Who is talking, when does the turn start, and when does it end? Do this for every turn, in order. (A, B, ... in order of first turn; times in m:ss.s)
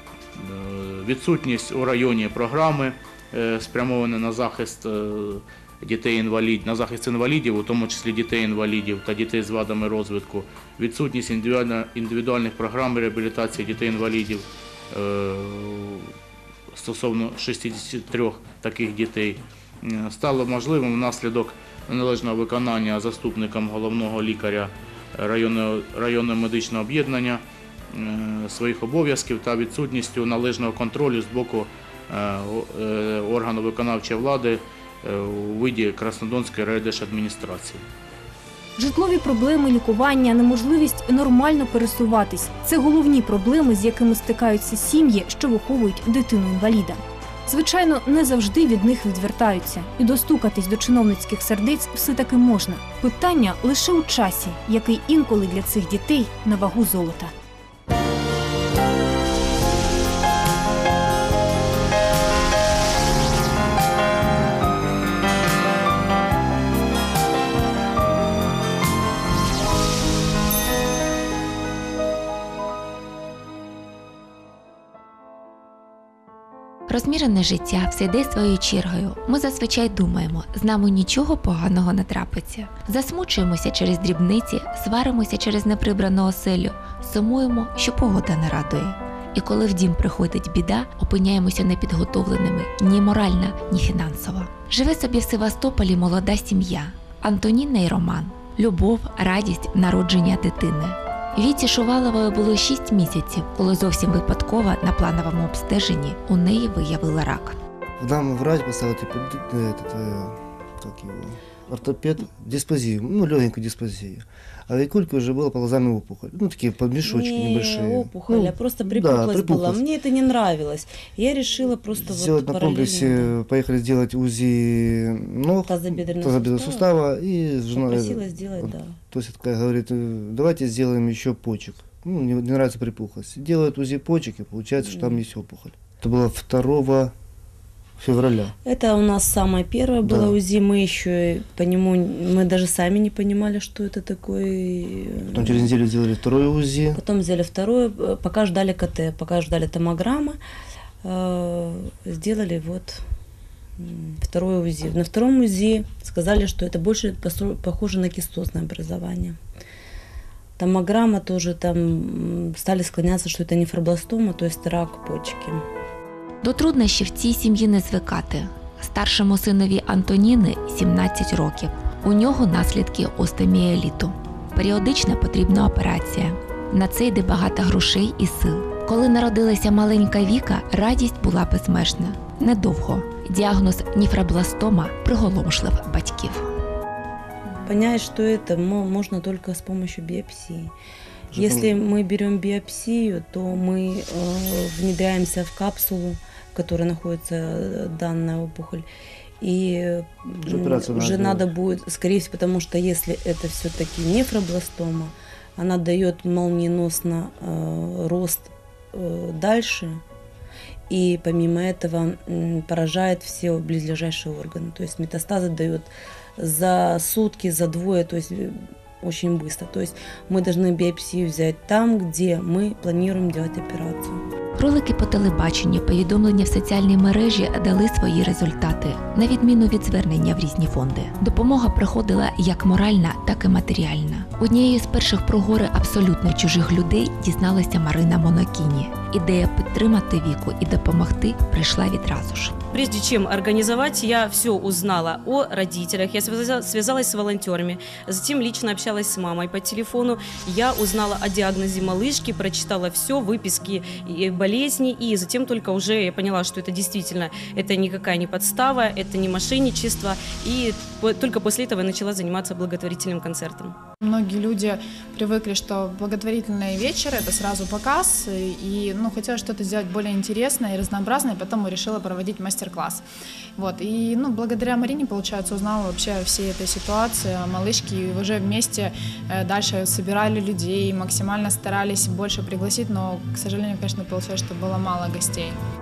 0:00.3-0:16.1 A
0:16.7-0:37.8 A
0:38.8-0:57.3 B
1:16.9-1:47.6 C
1:48.0-1:59.8 D
1:57.0-2:03.3 E
2:02.0-2:17.1 D
2:05.6-2:06.9 E
2:07.7-2:09.0 E
2:14.9-2:15.2 E
2:18.0-2:18.5 D
2:18.6-2:25.7 E
2:20.0-2:20.4 D
2:25.3-2:27.0 D
2:27.0-2:30.4 E
2:31.0-2:33.0 E
2:33.8-2:39.4 E
2:40.6-2:45.6 E
2:46.4-3:06.5 C
3:07.5-3:10.7 E
3:11.3-3:11.8 D
3:11.3-3:18.8 E
3:19.4-3:30.0 E
3:20.4-3:21.5 D
3:30.9-3:44.2 E
3:44.6-4:02.6 C
4:02.7-4:23.7 F
4:24.0-4:33.0 G
4:33.6-4:45.6 G